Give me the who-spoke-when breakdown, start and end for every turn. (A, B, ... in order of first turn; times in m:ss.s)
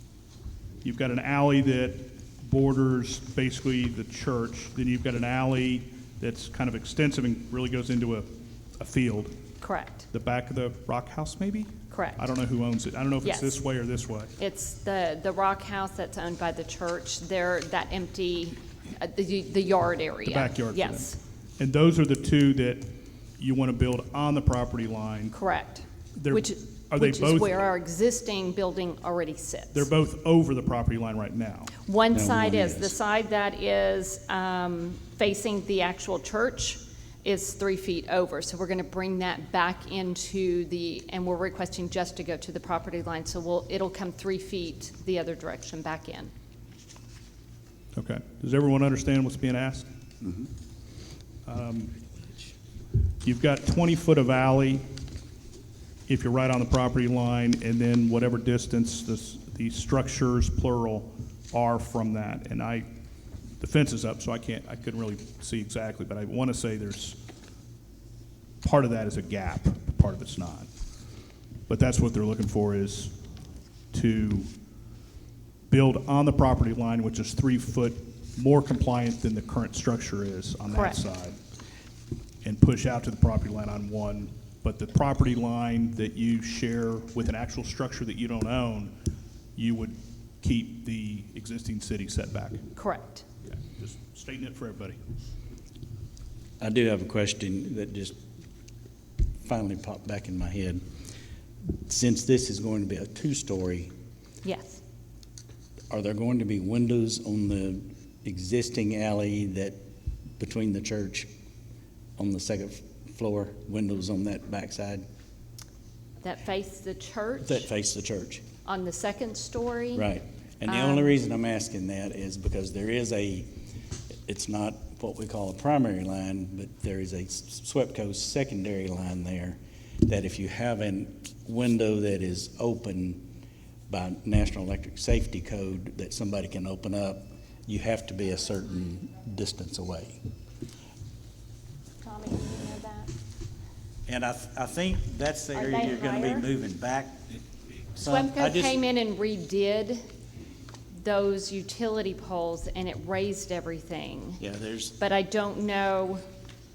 0:00.8-0:09.4 A
0:09.6-0:10.1 B
0:10.1-0:14.3 A
0:11.9-0:12.3 B
0:13.2-0:13.6 B
0:14.4-0:21.2 B
0:20.3-0:25.3 A
0:25.3-0:29.9 B
0:26.2-0:27.5 A
0:29.7-0:31.7 A
0:31.8-0:46.3 B
0:32.1-0:33.0 C
0:48.0-0:49.9 A
0:51.5-0:51.9 A
0:53.2-0:54.8 A
0:56.1-1:02.9 A
1:03.6-1:07.2 A
1:08.6-1:10.7 A
1:11.7-1:13.2 A
1:13.9-1:14.5 A
1:15.7-1:21.4 A
1:20.7-1:21.0 B
1:22.4-1:28.9 A
1:29.6-1:32.7 A
1:32.8-1:33.2 B
1:33.5-1:35.0 A
1:36.6-1:38.2 C
1:39.4-1:40.8 C
1:41.9-1:43.9 C
1:44.4-1:44.8 B
1:45.9-1:49.8 C
1:50.4-1:51.3 C
1:52.2-1:55.0 C
1:56.2-1:57.7 B
1:57.4-1:58.4 C
1:58.6-2:00.1 B
2:00.0-2:03.5 C
2:00.7-2:01.1 B
2:04.3-2:13.3 C
2:13.9-2:20.2 C
2:22.0-2:23.1 B
2:24.1-2:27.4 C
2:25.5-2:26.5 B
2:28.0-2:28.8 C
2:28.0-2:30.0 B
2:31.0-2:34.4 B
2:34.4-2:35.0 C
2:35.0-2:36.2 B